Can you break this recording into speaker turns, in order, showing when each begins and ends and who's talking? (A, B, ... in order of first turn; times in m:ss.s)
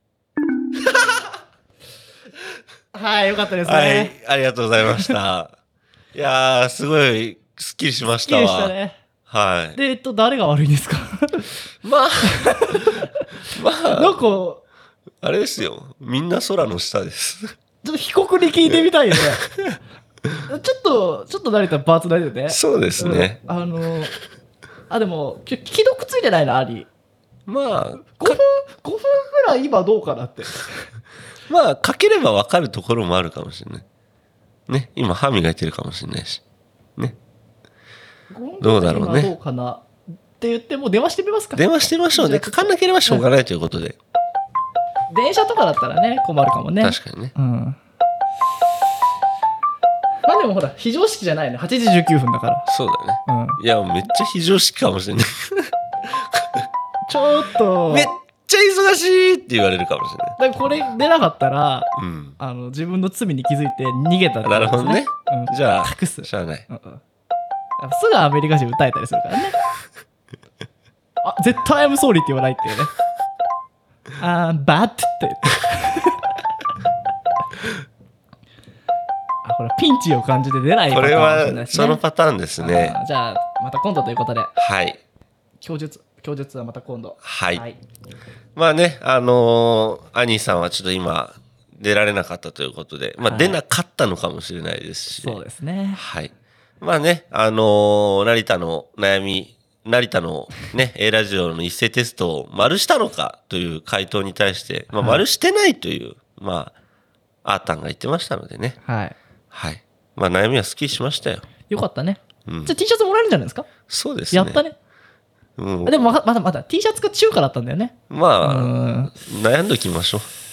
0:02.9-0:04.1 A
0:03.6-0:05.5 B
0:06.1-0:08.7 B
0:08.2-0:09.0 A
0:09.3-0:09.8 B
0:09.8-0:11.5 A
0:11.8-0:13.0 B
0:12.7-0:13.0 A
0:13.5-0:14.2 B
0:13.9-0:14.6 A
0:15.2-0:17.5 B
0:17.8-0:19.4 A
0:18.6-0:19.8 B
0:20.5-0:24.1 A
0:22.5-0:23.4 B
0:24.9-0:26.9 A
0:27.5-0:28.4 B
0:28.1-0:30.8 A
0:31.5-0:33.8 B
0:34.7-0:36.4 B
0:38.3-0:43.3 A
0:38.6-0:39.3 B
0:41.6-0:44.0 B
0:45.1-0:47.8 A
0:46.8-0:47.3 B
0:50.2-0:52.7 A
0:52.7-0:55.7 B
0:53.2-0:53.6 A
0:57.1-0:58.1 A
0:57.9-1:00.4 B
1:00.4-1:07.0 A
1:02.0-1:02.4 B
1:04.4-1:06.6 B
1:07.8-1:09.6 A
1:11.2-1:12.9 A
1:14.2-1:16.2 A
1:19.4-1:22.0 A
1:20.9-1:23.0 B
1:22.6-1:24.5 A
1:24.6-1:25.0 B
1:25.6-1:27.8 A
1:27.2-1:27.6 B
1:28.5-1:35.4 B
1:33.2-1:33.6 A
1:35.1-1:36.0 A
1:35.9-1:46.7 B
1:44.9-1:45.2 A
1:47.4-1:48.8 B
1:48.8-1:49.2 A
1:49.5-1:51.5 B
1:51.7-1:53.7 A
1:52.4-1:52.8 B
1:53.9-1:54.6 B
1:54.3-1:54.7 A
1:55.6-1:56.0 B
1:55.8-1:59.1 A
1:58.1-2:00.3 B